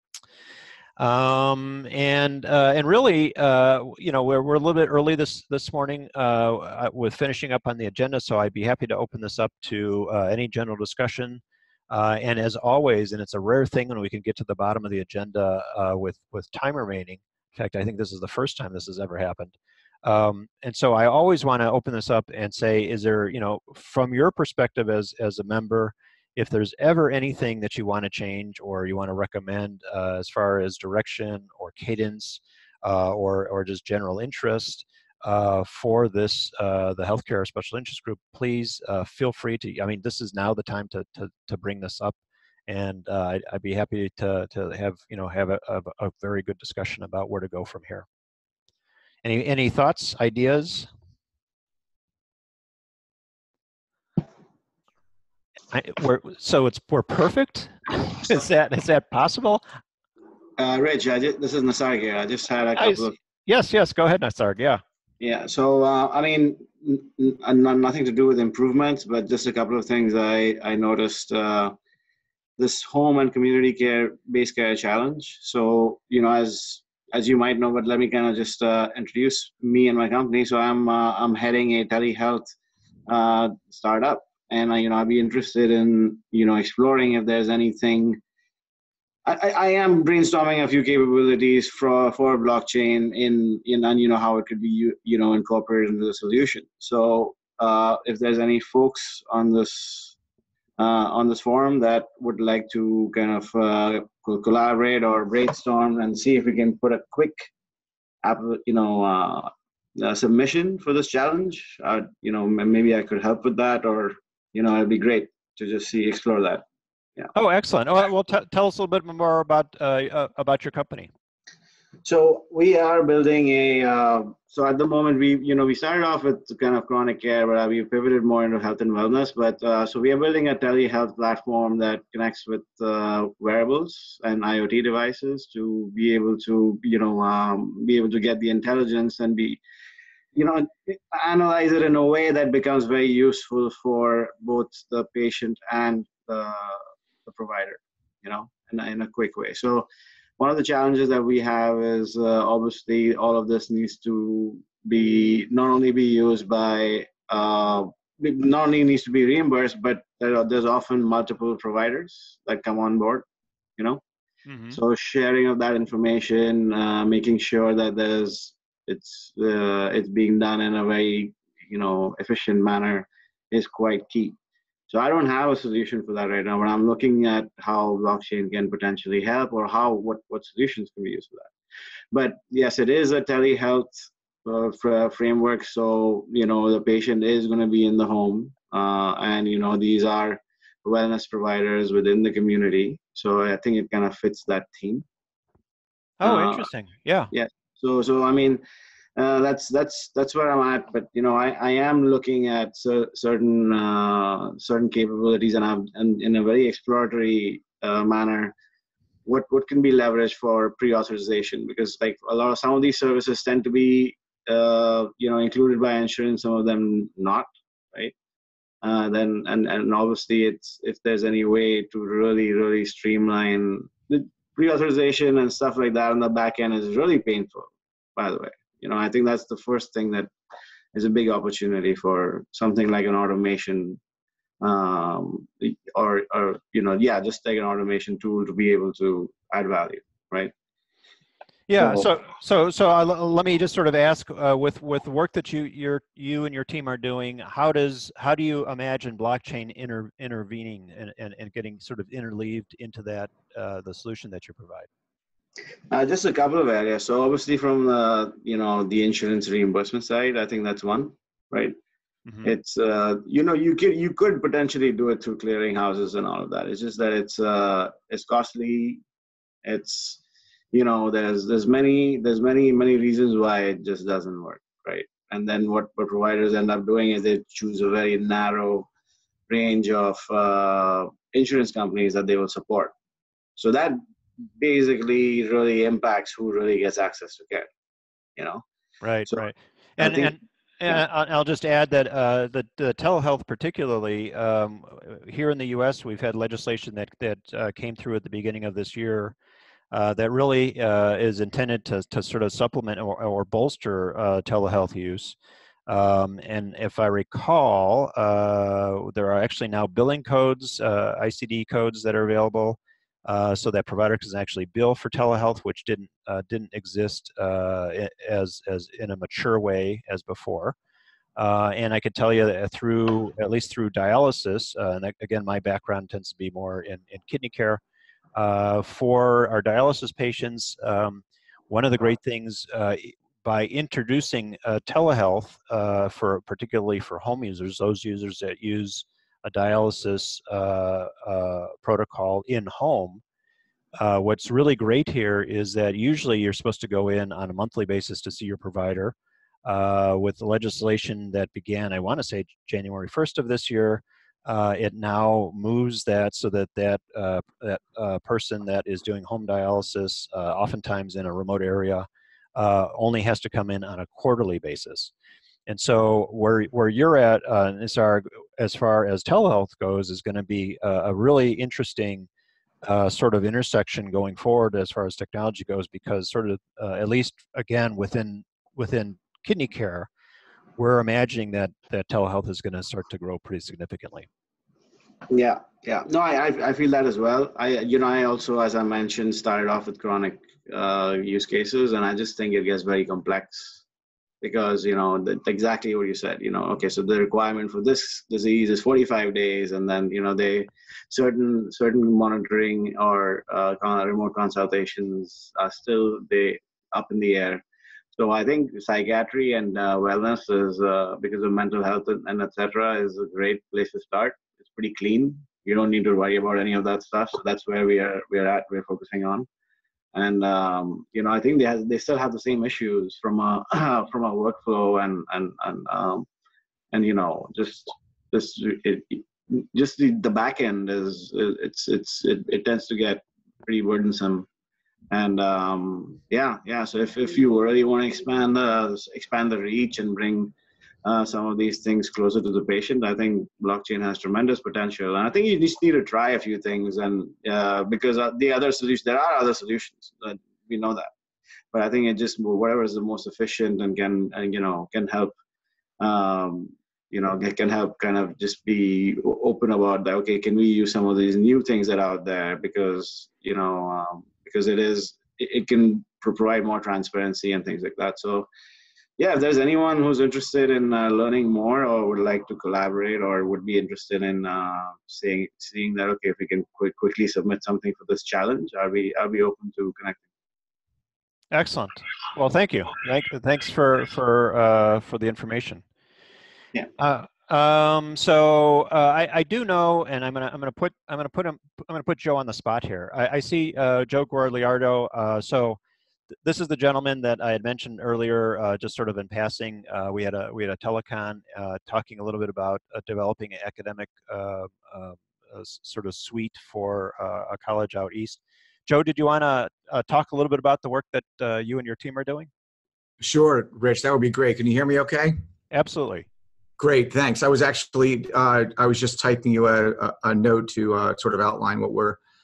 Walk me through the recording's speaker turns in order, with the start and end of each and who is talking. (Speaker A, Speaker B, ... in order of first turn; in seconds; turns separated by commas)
Speaker A: 1.0-42.2, Speaker A: 42.7-48.0, Speaker A: 49.2-50.9, Speaker A: 55.7-59.6, Speaker B: 60.6-63.1, Speaker A: 62.8-64.8, Speaker B: 65.2-71.8, Speaker B: 72.6-82.5, Speaker B: 83.1-88.2, Speaker B: 89.2-100.2, Speaker B: 100.8-107.5, Speaker B: 108.2-116.6, Speaker A: 117.3-121.1, Speaker B: 122.0-139.6, Speaker B: 140.3-149.9, Speaker B: 150.4-163.2, Speaker A: 164.5-164.8, Speaker B: 164.7-174.4, Speaker B: 174.9-181.5, Speaker B: 182.1-195.1, Speaker A: 196.2-197.3, Speaker B: 196.2-196.7, Speaker B: 197.3-198.6, Speaker B: 199.2-208.5, Speaker B: 209.2-218.1, Speaker B: 218.8-230.3, Speaker B: 230.9-234.0, Speaker B: 234.6-240.5, Speaker A: 241.7-254.9, Speaker B: 255.9-261.8, Speaker B: 262.4-269.0, Speaker B: 269.6-270.2, Speaker B: 270.7-278.9, Speaker B: 279.5-282.9, Speaker B: 283.6-284.0, Speaker B: 284.6-287.7, Speaker B: 288.4-288.6, Speaker A: 289.0-299.4, Speaker B: 289.3-291.0, Speaker A: 299.9-305.4, Speaker A: 305.9-320.8, Speaker A: 321.4-327.8, Speaker A: 328.4-343.2, Speaker A: 344.0-349.1, Speaker A: 349.7-365.1, Speaker A: 365.7-372.3, Speaker A: 372.9-380.1, Speaker A: 380.8-384.3, Speaker B: 385.3-393.8, Speaker B: 394.4-407.6, Speaker B: 408.1-419.5, Speaker B: 420.1-426.3, Speaker B: 426.9-434.5, Speaker B: 435.1-440.5, Speaker B: 441.1-451.1, Speaker B: 451.7-455.3, Speaker B: 456.0-468.5, Speaker B: 469.2-480.2, Speaker A: 481.5-485.8, Speaker A: 487.0-495.8, Speaker A: 496.4-512.5, Speaker C: 513.2-515.4, Speaker A: 515.7-516.3, Speaker C: 516.8-522.2